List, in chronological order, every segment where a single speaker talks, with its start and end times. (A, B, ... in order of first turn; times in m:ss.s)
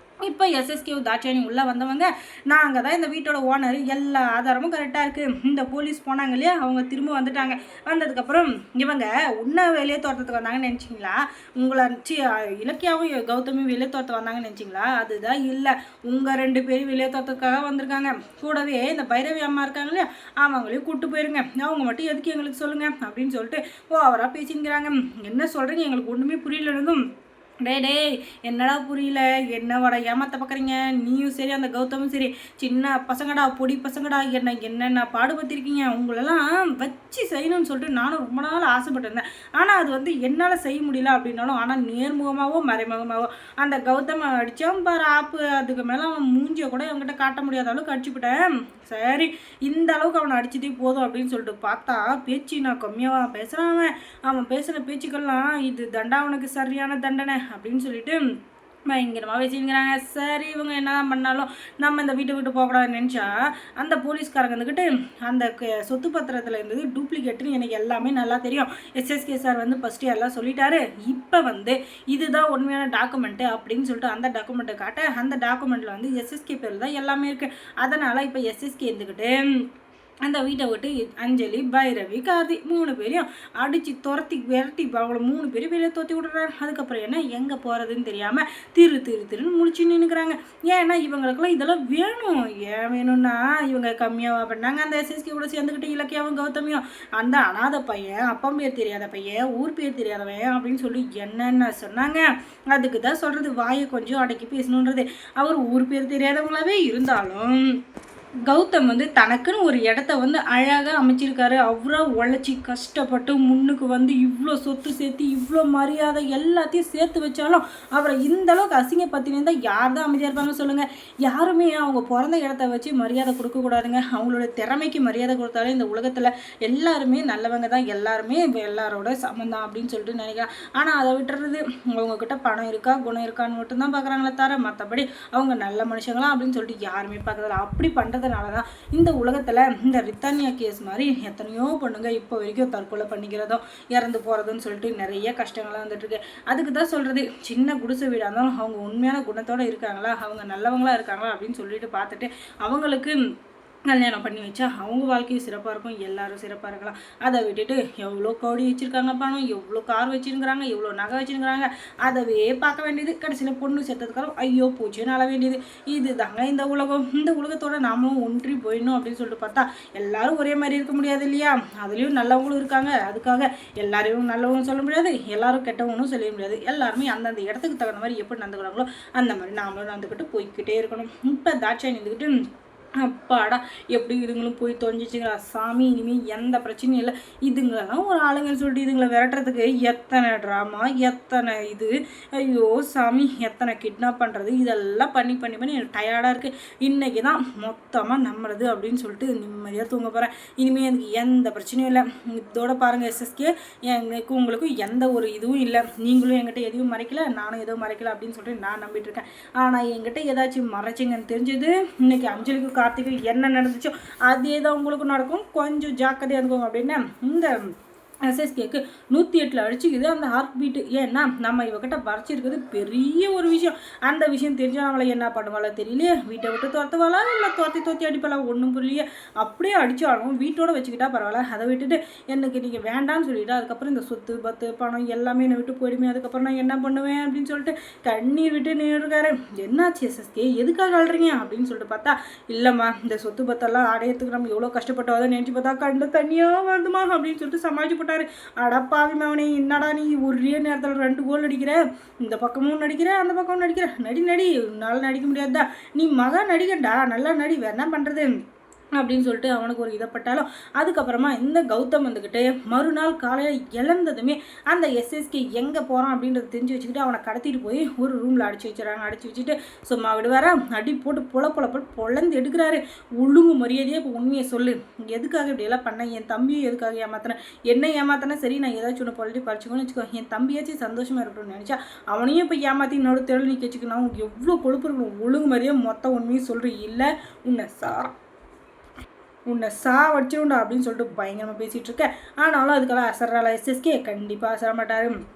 0:00.2-0:27.0 A
0:27.6-0:58.2 A
0:58.8-1:19.4 A
1:20.2-1:47.6 A
1:48.4-2:33.2 A
2:33.9-3:02.3 A
3:03.0-3:37.6 A
3:38.2-4:18.3 A
4:19.0-4:48.1 A
4:49.5-4:55.2 A